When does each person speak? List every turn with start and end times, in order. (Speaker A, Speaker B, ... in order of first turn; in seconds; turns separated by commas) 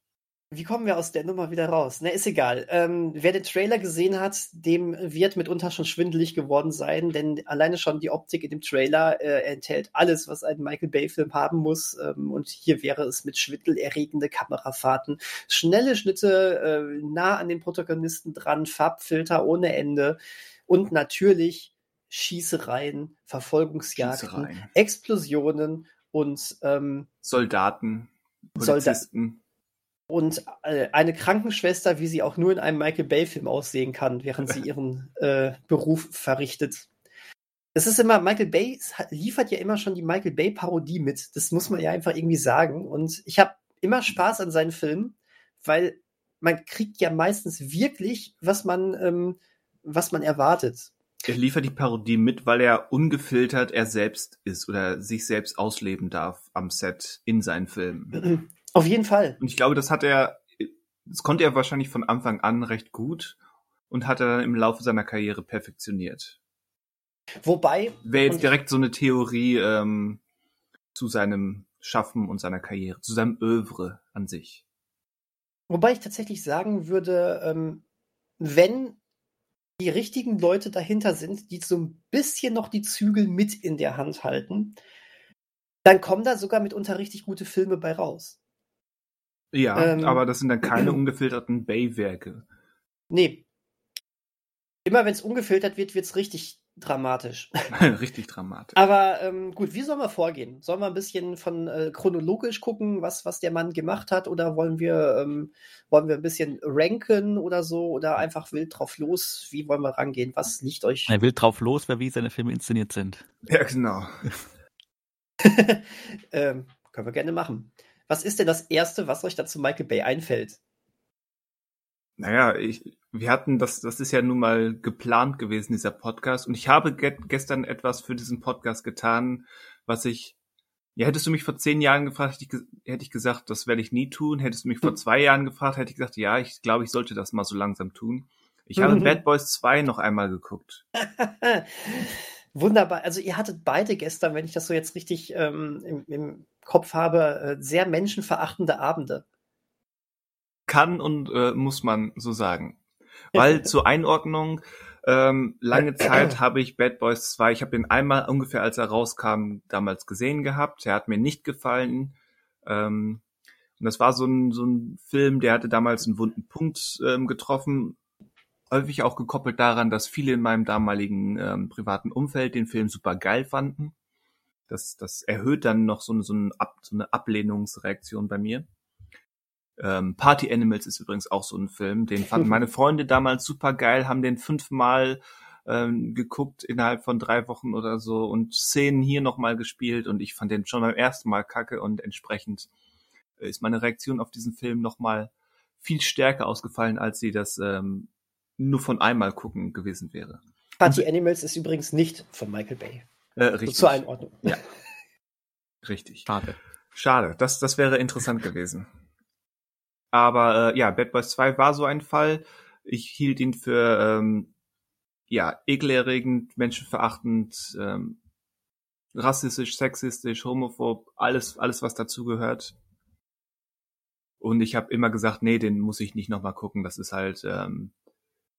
Speaker A: 0.5-27.1, Speaker B: 23.9-24.7, Speaker B: 27.2-29.4, Speaker A: 28.6-29.0, Speaker A: 30.1-36.9, Speaker A: 37.7-50.9, Speaker B: 51.2-58.3, Speaker A: 58.2-59.4, Speaker B: 59.4-63.4, Speaker B: 63.9-66.4, Speaker A: 67.4-68.5, Speaker B: 68.0-70.2, Speaker B: 70.9-74.6, Speaker A: 75.7-77.8, Speaker A: 78.4-79.0, Speaker A: 79.8-84.8, Speaker A: 85.8-88.3, Speaker B: 89.5-92.4, Speaker A: 89.8-90.2, Speaker A: 93.1-93.4, Speaker A: 94.8-97.5, Speaker B: 97.7-98.8, Speaker A: 98.8-111.1, Speaker C: 111.1-113.2, Speaker B: 113.5-114.2, Speaker A: 115.4-120.6, Speaker B: 122.2-130.3, Speaker B: 130.9-140.8, Speaker A: 138.8-139.2, Speaker A: 141.0-149.2, Speaker B: 150.7-152.8, Speaker B: 153.3-162.1, Speaker A: 153.3-153.6, Speaker B: 162.7-163.2, Speaker B: 163.8-168.0, Speaker B: 168.7-173.9, Speaker B: 174.7-178.7, Speaker B: 179.8-192.7, Speaker B: 193.4-200.4, Speaker A: 200.8-203.1, Speaker B: 203.4-204.6, Speaker A: 203.7-204.6, Speaker B: 205.8-206.3, Speaker C: 206.3-206.6, Speaker B: 206.9-208.9, Speaker B: 210.1-214.5, Speaker B: 215.3-218.2, Speaker B: 219.1-222.8, Speaker B: 224.4-227.9